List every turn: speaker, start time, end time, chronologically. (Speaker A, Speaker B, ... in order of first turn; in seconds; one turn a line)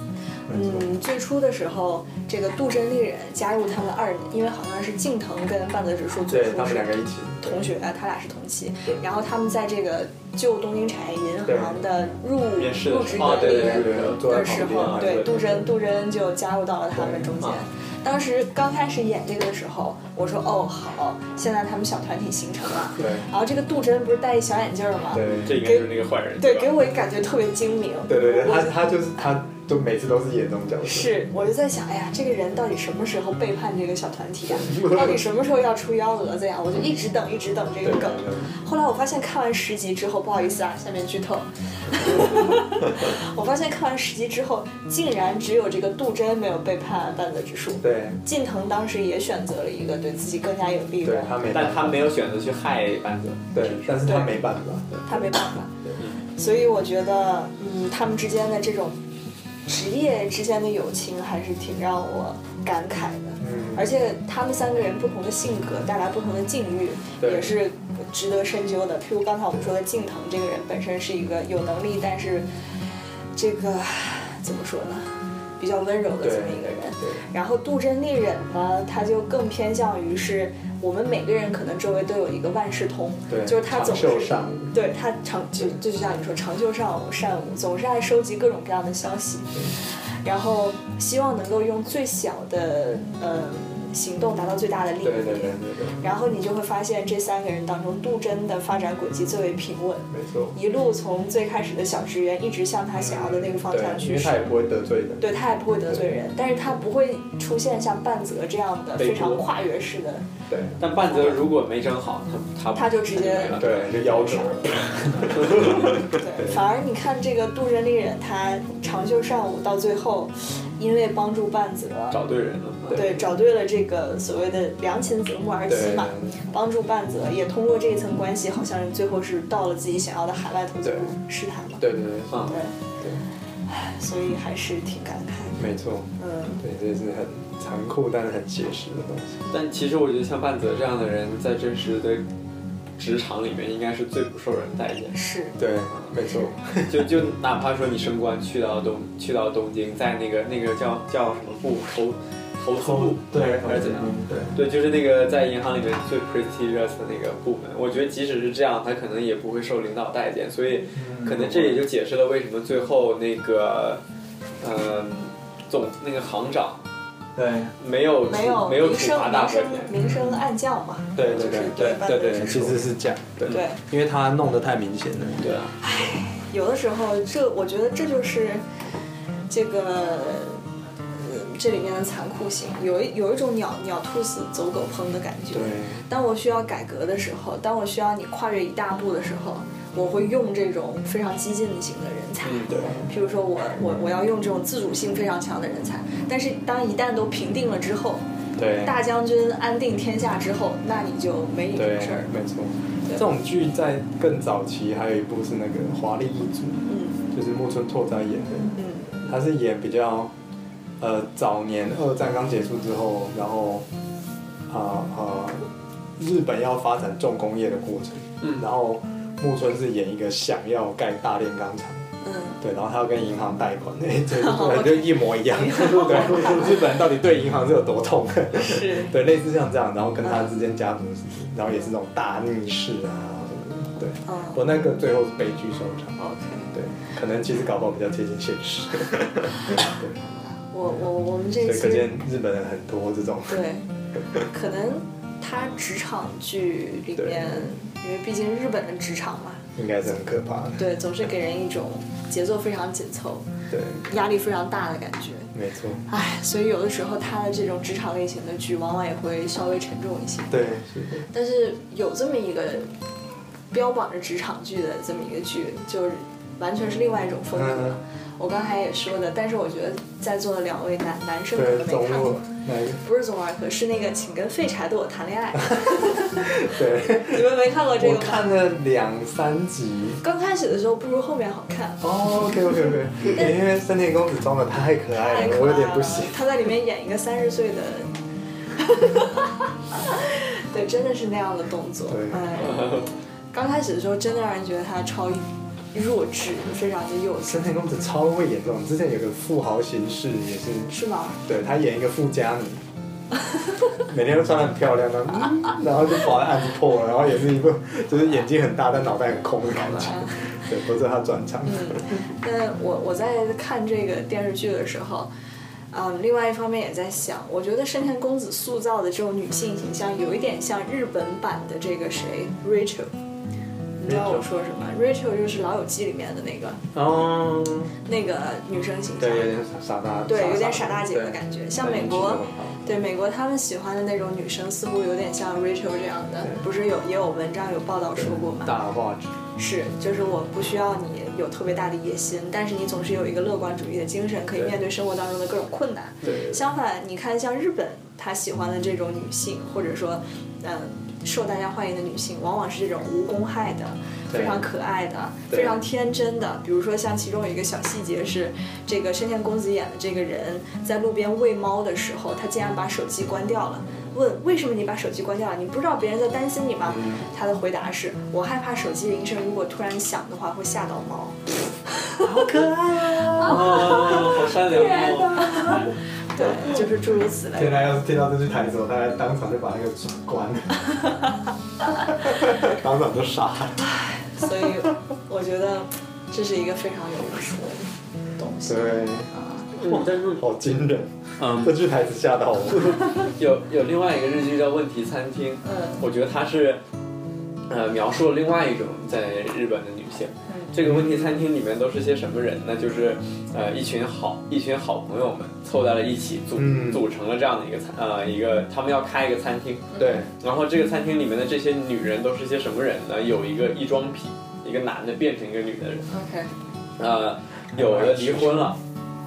Speaker A: 0.5-0.9
Speaker B: 0.5-28.9
Speaker A: 6.3-7.7
Speaker A: 11.4-11.8
Speaker C: 12.6-15.6
Speaker A: 13.2-15.7
Speaker A: 16.9-17.4
Speaker A: 23.0-23.3
Speaker A: 25.1-25.6
Speaker C: 25.3-26.8
Speaker A: 28.1-31.2
Speaker B: 30.8-51.3
Speaker A: 34.5-35.2
Speaker A: 37.8-38.5
Speaker A: 47.8-48.2
Speaker A: 51.0-52.1
Speaker C: 51.5-54.2
Speaker A: 53.5-56.0
Speaker B: 54.0-54.4
Speaker B: 55.0-55.7
Speaker B: 56.3-59.0
Speaker B: 59.6-72.7
Speaker A: 63.4-63.8
Speaker A: 67.2-67.5
Speaker B: 73.3-104.5
Speaker A: 76.2-77.2
Speaker A: 83.3-84.8
Speaker A: 95.0-96.1
Speaker A: 100.1-100.6
Speaker A: 103.0-105.3
Speaker B: 105.2-110.3
Speaker A: 105.9-106.2
Speaker C: 109.0-109.5
Speaker A: 110.5-110.8
Speaker C: 110.8-114.5
Speaker B: 111.0-111.5
Speaker B: 112.7-122.2
Speaker A: 113.5-116.6
Speaker C: 115.2-116.0
Speaker C: 122.1-123.2
Speaker B: 122.9-132.8
Speaker A: 125.7-126.4
Speaker A: 130.8-131.1
Speaker A: 131.8-133.2
Speaker C: 132.3-132.6
Speaker B: 133.7-135.6
Speaker A: 135.6-139.5
Speaker B: 136.2-136.6
Speaker C: 139.5-142.2
Speaker C: 143.0-145.2
Speaker B: 145.1-145.6
Speaker A: 145.6-147.3
Speaker C: 146.9-164.0
Speaker A: 152.8-154.6
Speaker A: 160.9-161.9
Speaker C: 164.6-166.8
Speaker A: 167.4-167.8
Speaker C: 167.8-169.9
Speaker B: 168.2-172.9
Speaker A: 170.0-170.4
Speaker A: 171.2-175.5
Speaker B: 173.5-173.8
Speaker C: 175.4-175.7
Speaker B: 175.8-178.6
Speaker B: 179.5-180.6
Speaker B: 181.2-198.2
Speaker A: 185.5-186.1
Speaker C: 192.4-192.7
Speaker A: 192.7-193.1
Speaker A: 198.6-199.0
Speaker B: 198.8-202.3
Speaker A: 201.8-210.3
Speaker B: 206.9-207.2
Speaker B: 208.8-209.3
Speaker A: 211.0-213.9
Speaker A: 214.7-222.1
Speaker B: 222.2-222.6
Speaker A: 222.6-236.2
Speaker B: 224.3-226.8
Speaker B: 228.5-229.2
Speaker B: 230.2-230.5
Speaker B: 234.3-234.6
Speaker B: 236.2-236.8
Speaker A: 236.7-240.2
Speaker B: 239.8-242.2
Speaker A: 241.6-243.7
Speaker B: 243.5-243.9
Speaker A: 244.2-244.5
Speaker B: 244.4-249.7
Speaker A: 247.2-247.7
Speaker A: 249.8-250.9
Speaker B: 250.8-253.5
Speaker A: 253.7-254.1
Speaker B: 254.0-255.5
Speaker A: 255.5-256.1
Speaker B: 256.1-260.6
Speaker A: 260.5-261.3
Speaker B: 261.3-262.9
Speaker B: 263.7-272.5
Speaker A: 267.5-268.0
Speaker A: 271.6-273.0
Speaker B: 273.0-278.5
Speaker A: 275.7-280.2
Speaker B: 280.2-282.7
Speaker A: 282.0-286.5
Speaker B: 285.1-288.1
Speaker B: 288.8-297.7
Speaker A: 292.1-292.6
Speaker C: 292.7-293.1
Speaker A: 297.4-302.8
Speaker B: 300.9-301.4
Speaker A: 304.0-312.2
Speaker B: 309.8-310.4
Speaker B: 311.6-315.3
Speaker B: 315.9-323.1
Speaker B: 324.0-326.9
Speaker A: 324.1-324.4
Speaker A: 326.9-328.0
Speaker B: 328.1-329.5
Speaker A: 329.2-332.9
Speaker B: 330.3-338.8
Speaker A: 338.2-339.3
Speaker B: 339.6-371.4
Speaker A: 346.2-346.6
Speaker A: 354.3-354.7
Speaker A: 366.9-367.2
Speaker A: 372.2-374.4
Speaker C: 373.3-375.9
Speaker B: 373.3-378.0
Speaker A: 376.4-376.9
Speaker A: 377.5-381.1
Speaker A: 382.0-384.0
Speaker B: 383.9-389.8
Speaker A: 388.6-389.3
Speaker C: 389.8-390.4
Speaker A: 389.8-393.1
Speaker C: 391.4-391.8
Speaker C: 392.9-396.8
Speaker B: 395.6-396.0
Speaker C: 397.7-416.1
Speaker B: 400.5-400.8
Speaker A: 400.8-401.4
Speaker A: 406.6-407.1
Speaker A: 410.0-410.3
Speaker B: 416.1-416.5
Speaker C: 417.0-418.8
Speaker A: 417.7-418.8